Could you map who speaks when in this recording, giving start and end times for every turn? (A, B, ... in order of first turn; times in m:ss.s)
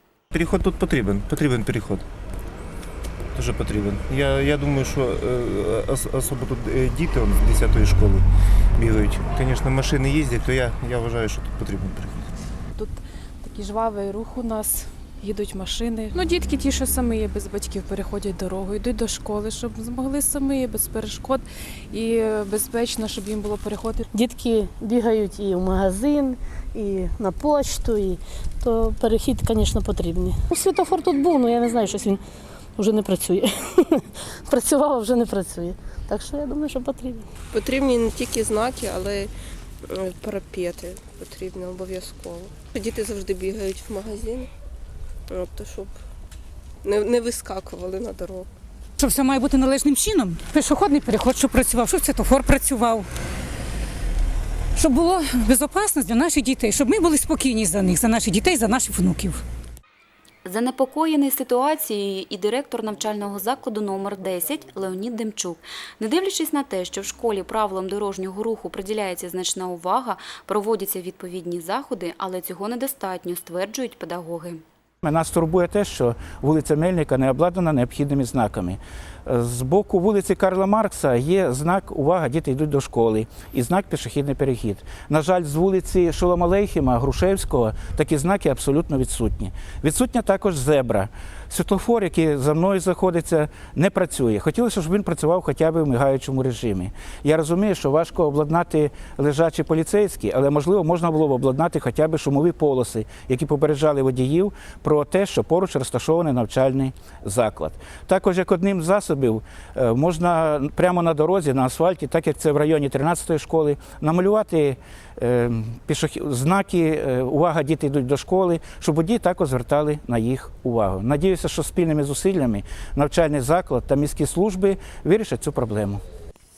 0:00.3-0:02.0 A
0:03.3-0:08.2 A
0:08.8-0:12.3 A
0:12.8-0:24.0 B
0:24.1-0:32.2 C
0:32.8-0:37.2 C
0:37.5-0:39.3 D
0:39.8-0:44.5 D
0:45.3-0:45.9 D
0:46.8-0:48.5 D
0:49.0-0:53.1 E
0:54.8-0:59.4 E
1:00.4-1:14.6 F
1:15.0-2:06.0 G